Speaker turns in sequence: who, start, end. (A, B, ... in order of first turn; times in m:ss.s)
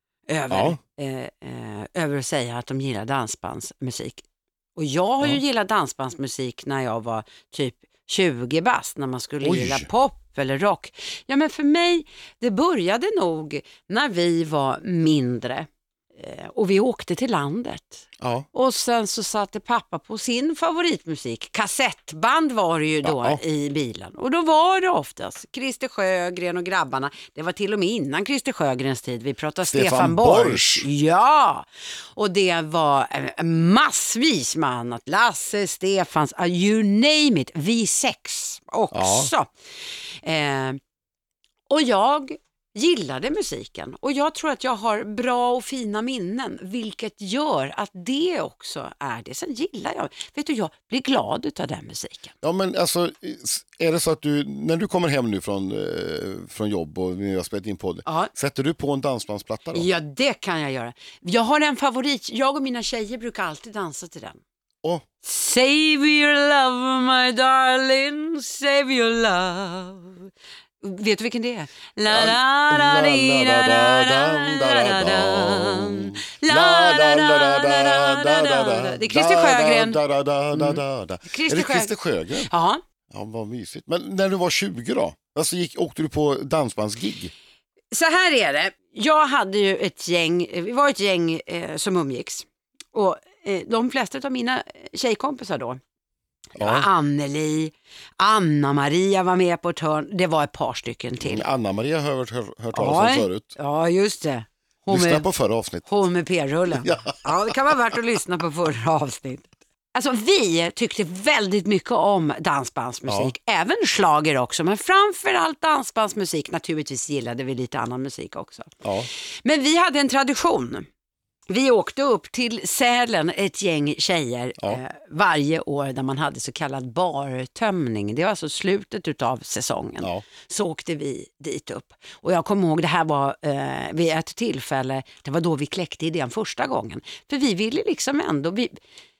0:00.3-0:04.2 A
0:00.5-0:00.8 B
0:04.8-0:39.5 A
0:09.4-0:09.9 B
0:18.2-0:18.5 B
0:23.0-0:23.4 B
0:29.6-0:30.9 B
0:38.9-0:39.3 B
0:40.1-0:40.8 A
0:41.7-0:52.3 A
0:52.4-0:59.9 B
0:58.0-0:58.3 A
0:59.7-1:04.4 A
1:05.2-1:10.3 A
1:10.8-1:20.0 A
1:12.1-1:22.5 B
1:20.5-1:21.9 A
1:22.5-1:22.8 A
1:23.1-1:27.3 B
1:27.9-1:35.8 A
1:36.6-1:36.9 B
1:36.6-1:41.4 A
1:41.2-1:43.5 B
1:42.7-1:45.3 A
1:44.9-1:45.9 B
1:45.8-2:00.9 A
1:46.8-1:47.2 B
1:53.1-1:53.3 B
1:58.8-1:59.1 B
2:01.5-2:18.7 A
2:10.0-2:10.2 B